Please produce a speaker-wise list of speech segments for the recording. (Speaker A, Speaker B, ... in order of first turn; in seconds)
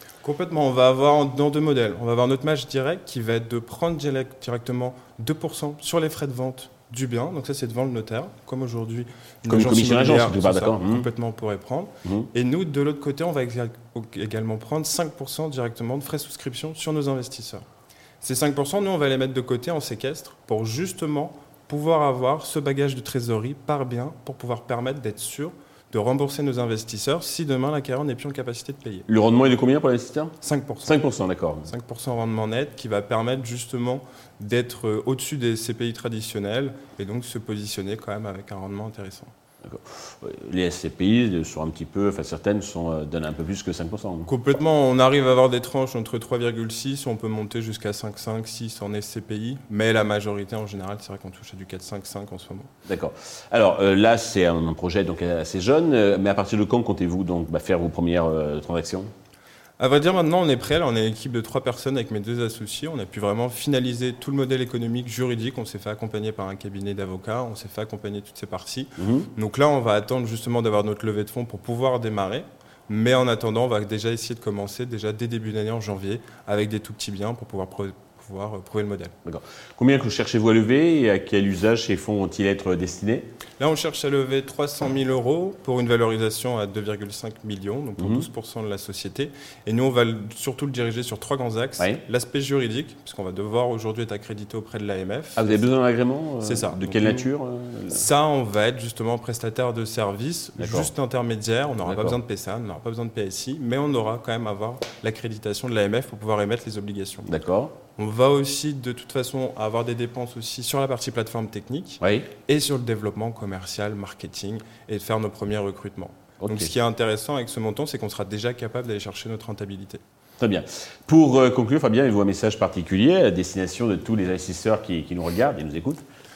Speaker A: 0.2-17.7, 18.2-29.1, 30.4-31.0, 31.6-39.3, 44.3-52.7, 59.8-79.1, 83.6-95.6, 96.4-97.3, 97.9-107.3, 108.0-120.0
Speaker B: 9.5-11.1, 29.1-31.7, 39.6-44.3, 52.9-59.1, 69.0-69.3, 79.2-83.2, 88.0-88.2, 95.3-98.0, 100.6-100.9, 101.8-102.2, 107.2-107.7, 112.0-112.3, 116.4-116.7, 120.4-126.0